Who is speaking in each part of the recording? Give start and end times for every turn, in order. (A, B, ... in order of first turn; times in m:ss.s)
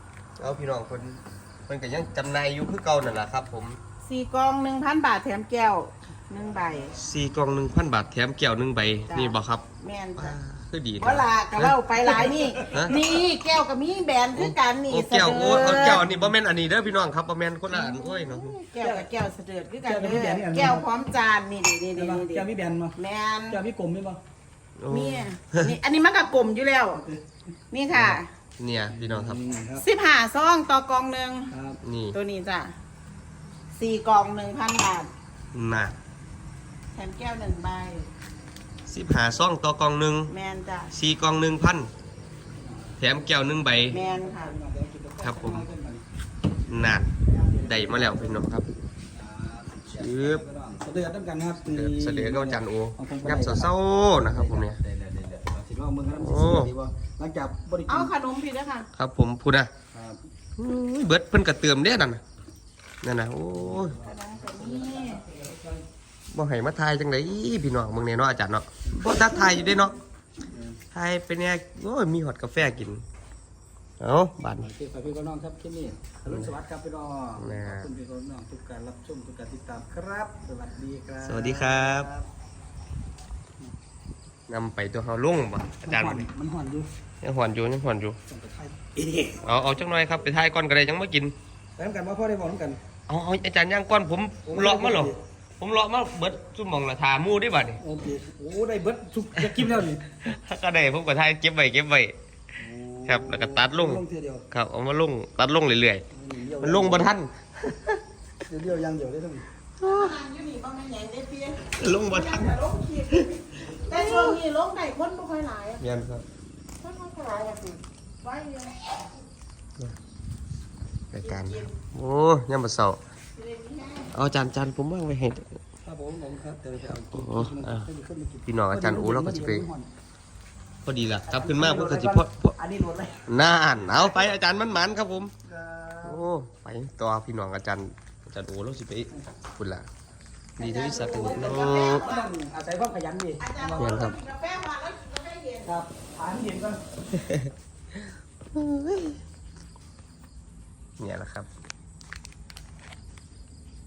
0:00.4-0:03.8 A
0:04.0-0:06.9 B
0:06.9-0:09.6 A
0:09.1-0:10.4 B
0:10.2-0:11.8 A
0:11.0-0:16.0 B
0:12.0-0:12.9 C
0:12.6-0:13.0 A
0:14.3-0:18.6 A
0:15.2-0:16.3 C
0:17.7-0:23.6 B
0:18.8-0:19.1 C
0:19.8-0:20.8 C
0:21.9-0:23.0 C
0:23.5-0:24.2 C
0:24.8-0:25.7 A
0:24.9-0:27.0 B
0:26.9-0:27.2 C
0:27.7-0:28.3 B
0:27.9-0:29.4 A
0:28.9-0:29.8 C
0:29.8-0:31.5 B
0:31.5-0:31.8 C
0:31.8-0:32.2 A
0:32.1-0:32.7 B
0:33.7-0:35.1 B
0:35.5-0:36.0 A
0:36.9-0:38.1 B
0:38.9-0:40.3 A
0:40.3-0:40.9 B
0:40.9-0:41.9 A
0:42.6-0:43.0 C
0:43.0-0:44.0 A
0:43.9-0:46.0 C
0:43.9-0:44.6 B
0:45.2-0:45.7 A
0:46.7-0:47.1 A
0:47.2-0:48.4 C
0:47.6-0:48.7 A
0:49.1-0:58.1 C
0:49.9-0:50.4 A
0:51.7-0:54.8 A
0:56.2-0:56.7 A
0:57.9-0:58.9 B
0:58.9-0:59.7 A
0:59.9-1:00.2 C
1:00.6-1:02.2 A
1:03.0-1:04.0 A
1:03.5-1:05.8 C
1:04.0-1:05.2 B
1:06.3-1:10.0 A
1:10.5-1:10.8 C
1:10.9-1:13.0 A
1:14.0-1:14.7 A
1:14.6-1:22.2 C
1:16.3-1:16.5 A
1:17.4-1:17.9 A
1:21.2-1:22.1 A
1:24.5-1:26.3 A
1:25.8-1:26.9 C
1:27.2-1:28.2 A
1:28.3-1:29.5 C
1:29.4-1:31.3 A
1:31.8-1:32.8 C
1:33.1-1:37.8 A
1:34.4-1:35.2 C
1:37.8-1:40.0 C
1:40.1-1:42.2 A
1:42.6-1:44.5 C
1:43.0-1:46.0 A
1:46.1-1:47.1 C
1:46.6-1:48.0 A
1:48.4-1:49.4 C
1:49.8-1:50.1 A
1:49.8-1:55.8 B
1:51.7-1:52.6 A
1:53.1-1:54.4 A
1:55.8-1:56.2 A
1:56.8-1:59.0 B
2:01.1-2:03.0 A
2:01.2-2:01.7 B
2:03.3-2:04.1 B
2:04.1-2:05.6 A
2:05.8-2:09.9 C
2:07.1-2:07.9 A
2:08.4-2:09.6 A
2:10.8-2:12.5 A
2:11.3-2:13.4 C
2:13.2-2:15.3 A
2:15.4-2:16.2 C
2:16.0-2:19.8 A
2:20.6-2:22.1 A
2:20.6-2:22.3 B
2:20.7-2:24.0 C
2:23.4-2:25.7 B
2:23.8-2:24.2 A
2:25.6-2:26.8 C
2:27.1-2:27.5 A
2:28.5-2:29.2 A
2:31.0-2:31.5 A